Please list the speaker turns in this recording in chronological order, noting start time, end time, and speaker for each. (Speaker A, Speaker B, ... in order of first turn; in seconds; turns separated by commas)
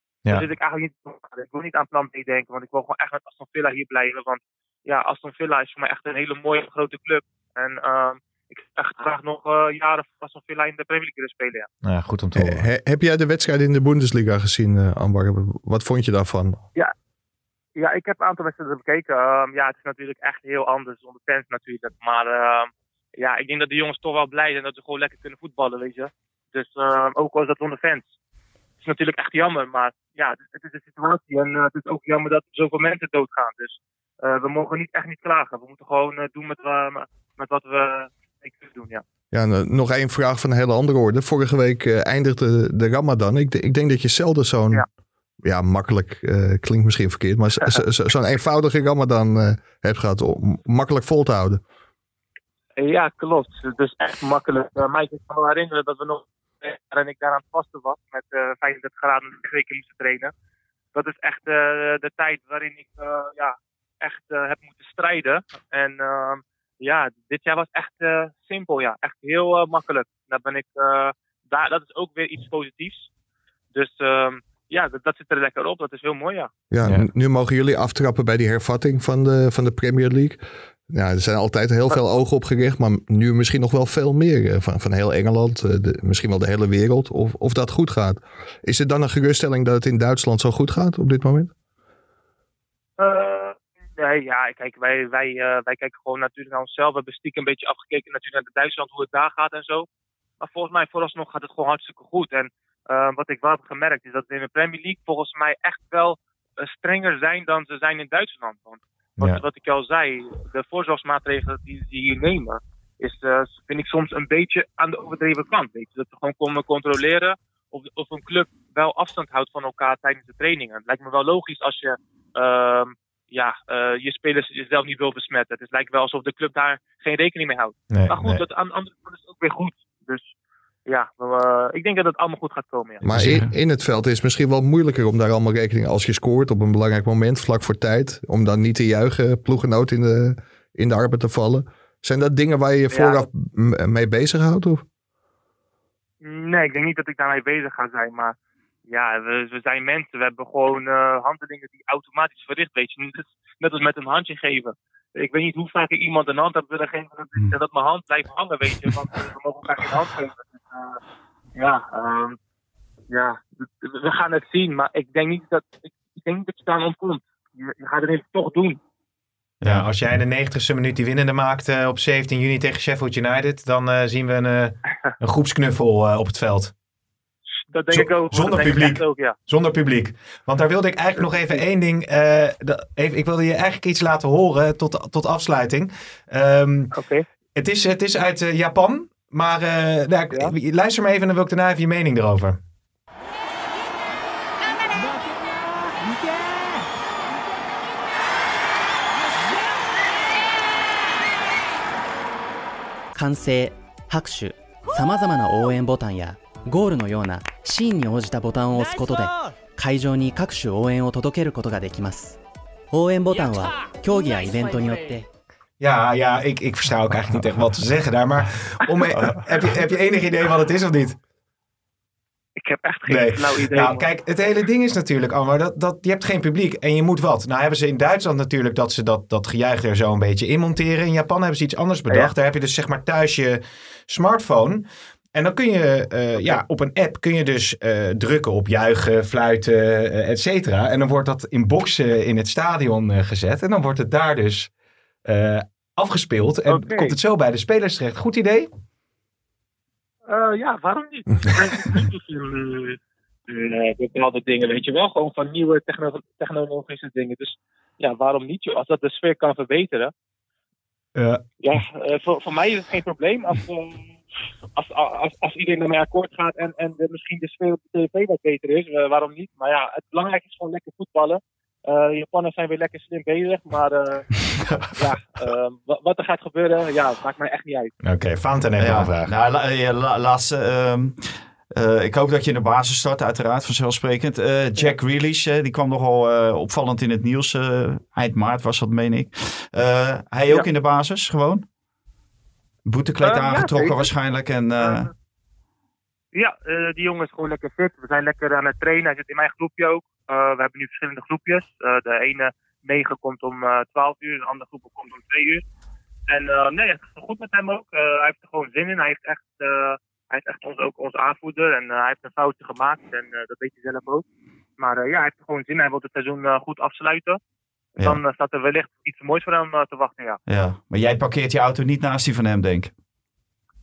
Speaker A: 0.3-11.7, Speaker B: 11.8-12.7, Speaker C: 12.3-16.6, Speaker A: 17.8-28.1, Speaker A: 28.8-39.0, Speaker C: 39.3-44.8, Speaker C: 45.4-51.6, Speaker A: 52.8-60.3, Speaker A: 60.9-73.1, Speaker A: 73.7-76.5, Speaker C: 76.7-91.5, Speaker A: 93.0-99.9, Speaker A: 100.4-130.3, Speaker B: 127.9-128.4, Speaker A: 130.8-133.0, Speaker C: 133.0-144.8, Speaker D: 133.1-133.5, Speaker A: 142.9-143.2, Speaker A: 146.2-148.3, Speaker A: 148.9-161.0, Speaker A: 161.6-162.4, Speaker A: 163.1-168.8, Speaker B: 169.6-176.7, Speaker A: 177.7-179.3, Speaker B: 177.9-186.9, Speaker A: 186.9-187.2, Speaker B: 187.5-192.6, Speaker E: 203.1-212.4, Speaker E: 212.9-215.2, Speaker B: 215.8-221.2, Speaker A: 222.6-224.0, Speaker B: 223.1-244.7, Speaker B: 245.2-248.7, Speaker A: 246.7-247.2, Speaker A: 250.3-260.1, Speaker B: 261.1-261.4, Speaker A: 261.6-264.1, Speaker A: 264.7-274.3, Speaker A: 274.9-277.9, Speaker B: 278.0-279.3, Speaker D: 278.8-291.6, Speaker D: 292.9-295.1, Speaker A: 293.2-294.1, Speaker A: 294.8-295.1, Speaker A: 296.3-305.6, Speaker A: 306.3-314.2, Speaker A: 314.8-317.4, Speaker A: 318.0-320.4, Speaker D: 320.5-322.9